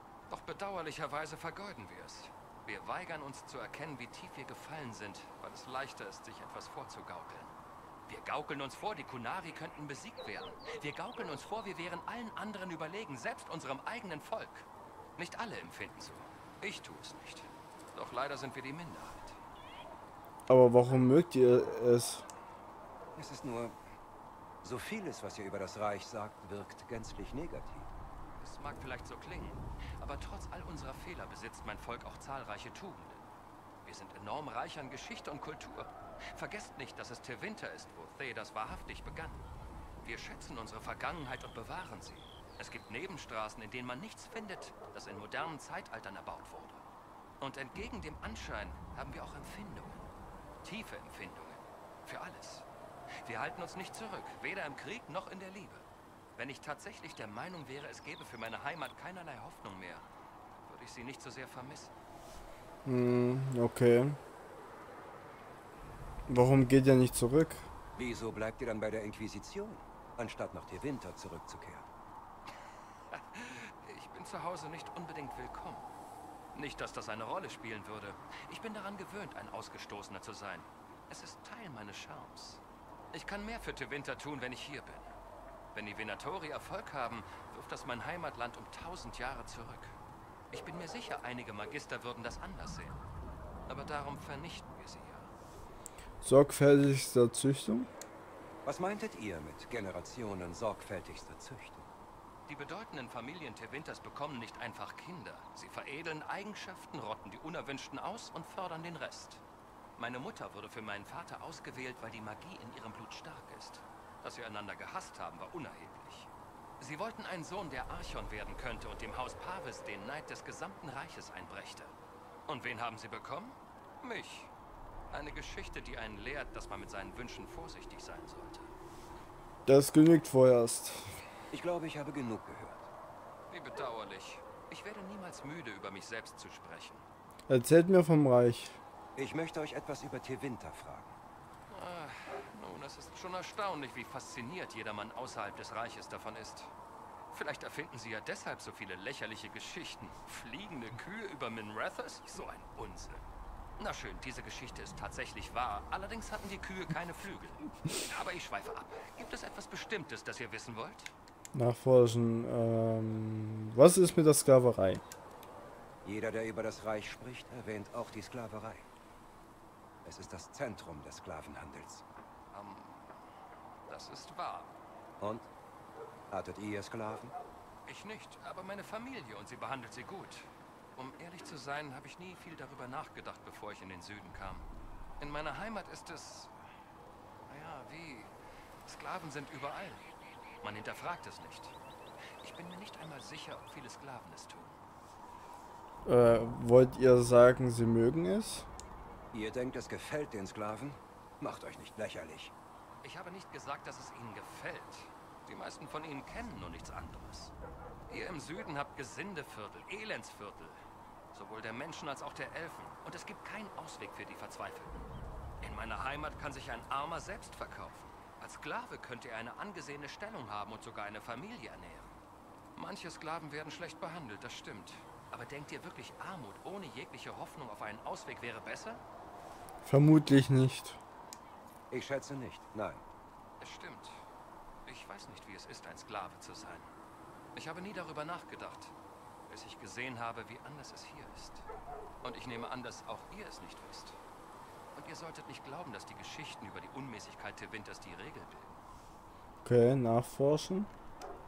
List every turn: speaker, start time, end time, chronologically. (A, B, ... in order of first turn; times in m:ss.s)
0:00.3-0:07.5 A
0:08.1-0:19.4 A
0:20.5-0:22.2 B
0:23.2-0:23.8 C
0:24.6-0:27.9 C
0:28.4-0:33.3 A
0:33.8-0:39.4 A
0:40.0-0:46.8 A
0:47.4-0:50.0 A
0:50.6-0:52.7 A
0:53.2-1:00.1 A
1:00.6-1:01.9 A
1:02.9-1:04.2 B
1:06.3-1:07.7 B
1:08.0-1:11.9 C
1:13.1-1:15.9 A
1:16.5-1:25.1 A
1:25.7-1:30.0 A
1:30.5-1:33.0 A
1:33.7-1:35.3 A
1:36.2-1:37.9 B
1:38.6-1:41.9 C
1:42.5-1:49.4 A
1:50.0-2:02.0 A
2:02.5-2:04.5 A
2:05.1-2:08.7 A
2:09.7-2:11.2 B
2:11.5-2:12.9 C
2:13.5-2:17.0 A
2:17.5-2:18.8 B
2:19.2-2:21.2 C
2:21.7-2:26.7 A
2:27.3-2:33.3 A
2:33.8-2:41.1 A
2:41.6-2:45.0 B
2:46.0-2:48.9 C
2:50.0-2:52.0 C
2:52.5-2:53.2 A
2:53.9-2:54.7 A
2:55.2-2:55.5 C
2:56.3-2:57.3 C
2:57.8-3:04.7 A
3:05.2-3:06.5 A
3:07.5-3:08.3 A
3:08.9-3:10.1 A
3:10.6-3:11.8 A
3:12.4-3:14.8 A
3:16.1-3:18.7 B
3:19.3-3:22.5 C
3:23.0-3:27.5 A
3:28.1-3:30.8 A
3:31.3-3:35.1 A
3:35.6-3:42.1 A
3:42.8-3:49.0 A
3:49.8-3:51.0 B
3:51.9-3:53.0 C
3:53.6-3:54.2 A
3:54.8-3:56.9 A
3:57.6-3:58.9 A
3:59.5-4:01.7 A
4:02.2-4:04.2 A
4:04.9-4:08.7 A
4:09.6-4:10.9 B